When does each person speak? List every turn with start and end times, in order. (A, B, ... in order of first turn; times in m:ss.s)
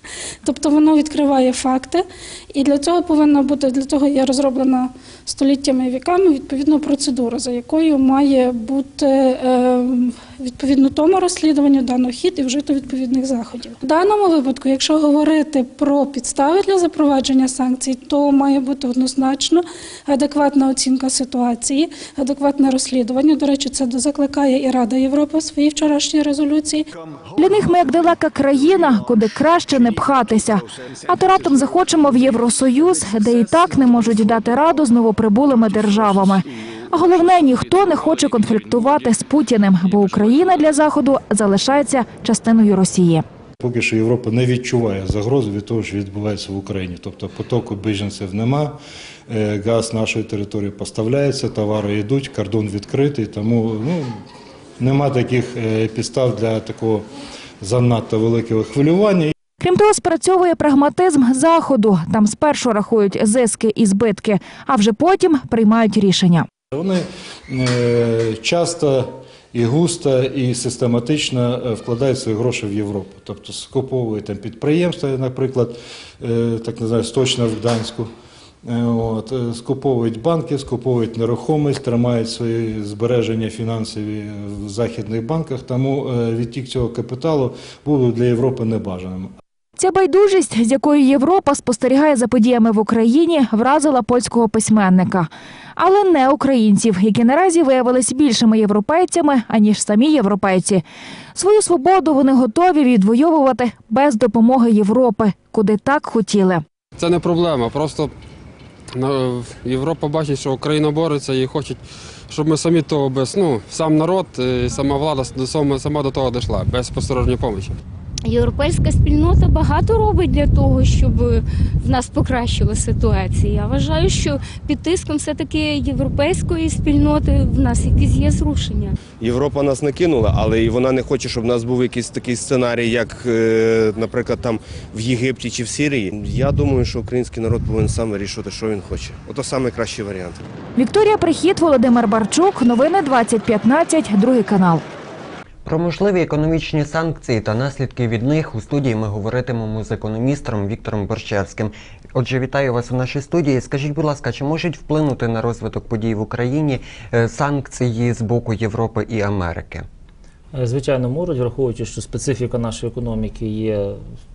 0:00.4-0:26.9 A
0:27.4-0:43.2 B
0:43.6-0:48.8 C
0:49.3-0:54.2 C
0:54.8-0:57.0 C
0:57.6-0:59.3 C
0:59.6-1:06.4 B
1:06.7-1:18.1 C
1:18.7-1:29.3 C
1:29.8-1:40.8 B
1:41.3-1:46.6 B
1:47.0-1:48.0 D
1:49.0-1:51.8 D
1:52.3-1:57.7 D
1:58.2-2:08.9 E
2:09.3-2:10.2 F
2:10.7-2:13.3 F
2:13.9-2:20.3 F
2:20.8-2:24.8 B
2:25.6-2:39.8 G
2:40.5-2:44.0 H